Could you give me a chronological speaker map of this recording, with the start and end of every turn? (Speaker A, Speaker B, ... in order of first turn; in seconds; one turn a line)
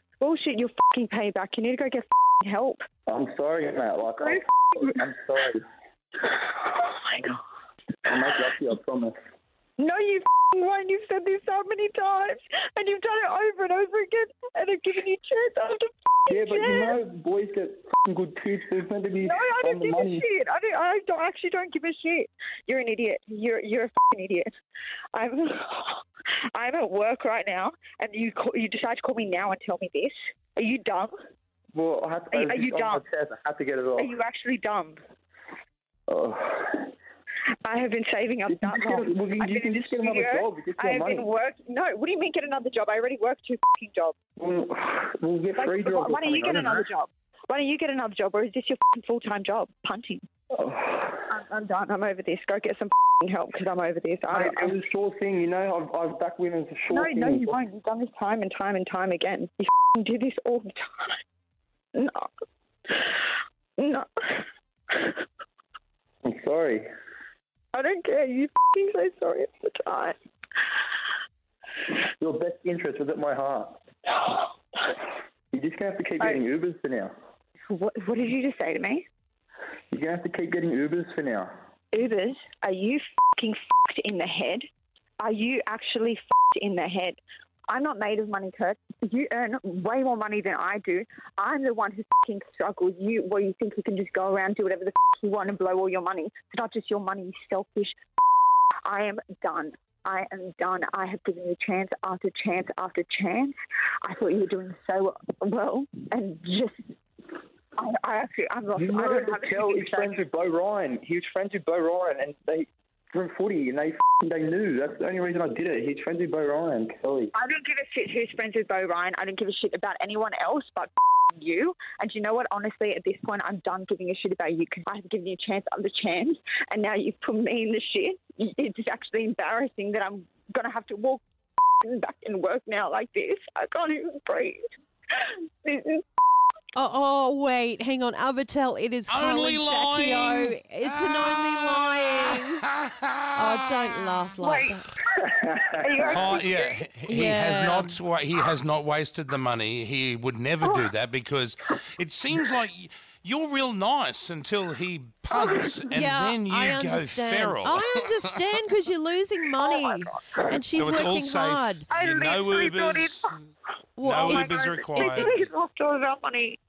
Speaker A: 0.2-2.8
Speaker B: 3.1-5.6
Speaker A: 4.2-5.0
Speaker A: 6.2-7.4
Speaker B: 8.1-9.2
Speaker A: 9.8-17.0
Speaker B: 16.3-20.2
Speaker A: 19.2-24.5
Speaker A: 25.1-26.0
Speaker A: 26.6-31.1
Speaker B: 31.7-34.1
Speaker A: 32.3-33.0
Speaker A: 34.0-35.0
Speaker B: 36.1-36.9
Speaker A: 37.6-44.1
Speaker B: 38.5-41.3
Speaker B: 44.4-46.9
Speaker A: 45.6-50.2
Speaker B: 50.5-51.2
Speaker A: 51.3-54.8
Speaker B: 54.3-57.6
Speaker A: 56.9-61.2
Speaker A: 62.0-62.3
Speaker A: 62.9-65.2
Speaker B: 66.2-66.9
Speaker A: 67.7-70.2
Speaker B: 72.2-73.8
Speaker A: 74.2-74.9
Speaker B: 75.5-77.1
Speaker A: 77.7-79.0
Speaker B: 79.9-81.5
Speaker A: 81.9-84.7
Speaker A: 85.2-98.0
Speaker A: 98.8-106.8
Speaker A: 107.8-110.2
Speaker B: 108.8-117.3
Speaker A: 117.3-131.2
Speaker A: 131.8-134.6
Speaker A: 135.2-136.0
Speaker C: 136.8-142.6
Speaker D: 139.1-143.6
Speaker C: 143.3-144.9
Speaker A: 144.4-146.8
Speaker D: 146.1-158.4
Speaker C: 147.1-148.0
Speaker A: 155.3-155.7
Speaker C: 155.9-161.9
Speaker A: 159.6-160.6
Speaker D: 160.8-163.3
Speaker A: 161.9-163.3
Speaker C: 164.0-165.3
Speaker D: 164.0-165.5
Speaker A: 164.2-166.6